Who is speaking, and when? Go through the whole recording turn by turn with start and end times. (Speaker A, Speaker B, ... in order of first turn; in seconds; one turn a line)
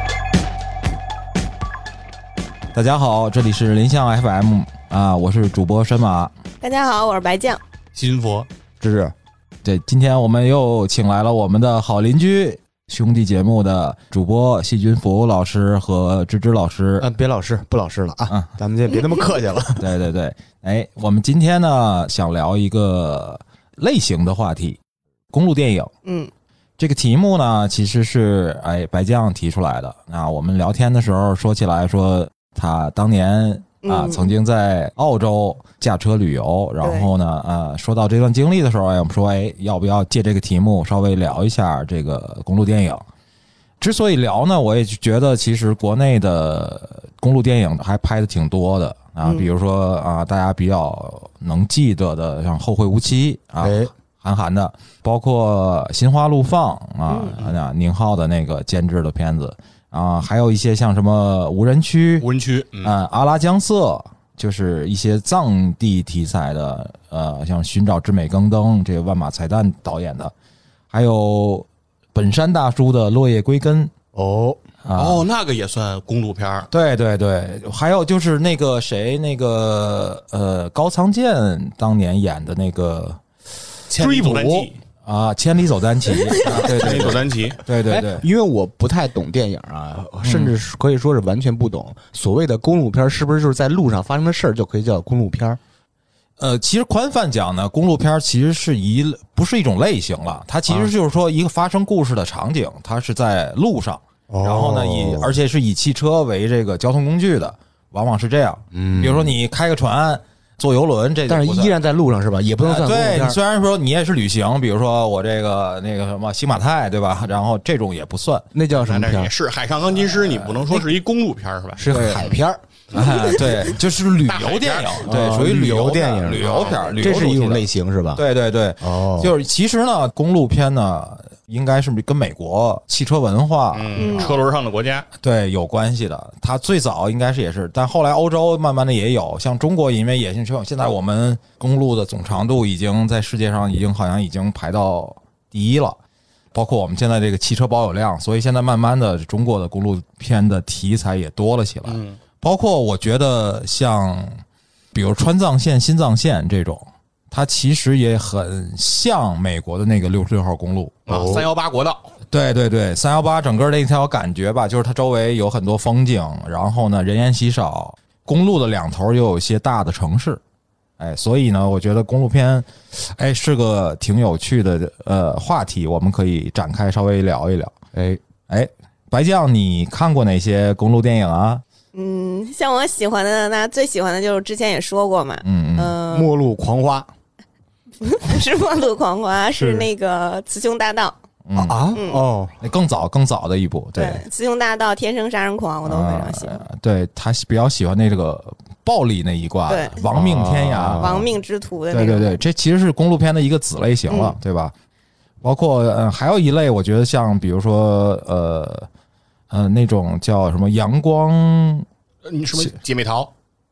Speaker A: 2.7-6.3
Speaker B: 6.6-7.6
Speaker C: 8.0-8.5
Speaker D: 8.8-9.1
Speaker A: 8.8-9.1
Speaker A: 9.6-17.1
Speaker D: 17.0-19.9
Speaker A: 19.8-24.8
Speaker A: 25.3-25.9
Speaker B: 26.1-26.3
Speaker A: 26.8-43.1
Speaker B: 33.8-34.3
Speaker B: 36.8-37.1
Speaker A: 43.8-62.3
Speaker B: 49.2-49.5
Speaker D: 53.6-53.9
Speaker B: 57.1-57.4
Speaker C: 62.2-62.9
Speaker A: 62.8-70.3
Speaker A: 70.9-73.9
Speaker D: 74.1-74.6
Speaker A: 74.8-75.2
Speaker C: 74.9-76.7
Speaker A: 76.7-83.2
Speaker C: 83.9-84.8
Speaker D: 84.0-84.7
Speaker A: 85.0-88.2
Speaker D: 86.3-87.2
Speaker C: 86.5-87.6
Speaker D: 87.8-95.6
Speaker A: 90.2-90.5
Speaker A: 96.4-111.8
Speaker D: 104.3-105.3
Speaker D: 108.7-109.3
Speaker D: 111.3-113.4
Speaker A: 112.6-118.5
Speaker D: 118.5-119.3
Speaker C: 118.7-122.4
Speaker A: 120.1-120.6
Speaker D: 121.8-122.6
Speaker A: 121.9-122.3
Speaker A: 122.9-134.3
Speaker C: 124.3-125.1
Speaker D: 125.1-128.2
Speaker C: 126.4-127.0
Speaker D: 128.8-129.3
Speaker C: 133.7-135.1
Speaker B: 134.0-134.4
Speaker A: 135.2-146.0
Speaker A: 146.5-154.4
Speaker C: 151.8-152.2
Speaker A: 154.9-161.1
Speaker C: 161.1-162.1
Speaker D: 161.1-161.5
Speaker A: 162.3-170.4
Speaker A: 171.0-177.7
Speaker D: 177.9-178.2
Speaker A: 178.5-181.6
Speaker B: 181.9-186.3
Speaker A: 185.4-186.0
Speaker D: 186.1-187.1
Speaker B: 188.0-191.2
Speaker D: 189.6-189.9
Speaker A: 191.5-191.9
Speaker D: 191.6-192.5
Speaker B: 191.9-192.2
Speaker A: 192.6-194.2
Speaker B: 194.0-196.6
Speaker A: 195.9-201.3
Speaker B: 199.7-200.1
Speaker D: 200.1-201.2
Speaker B: 201.0-202.4
Speaker A: 201.9-204.7
Speaker B: 204.1-204.4
Speaker A: 205.4-208.9
Speaker A: 209.5-211.9
Speaker C: 212.2-213.3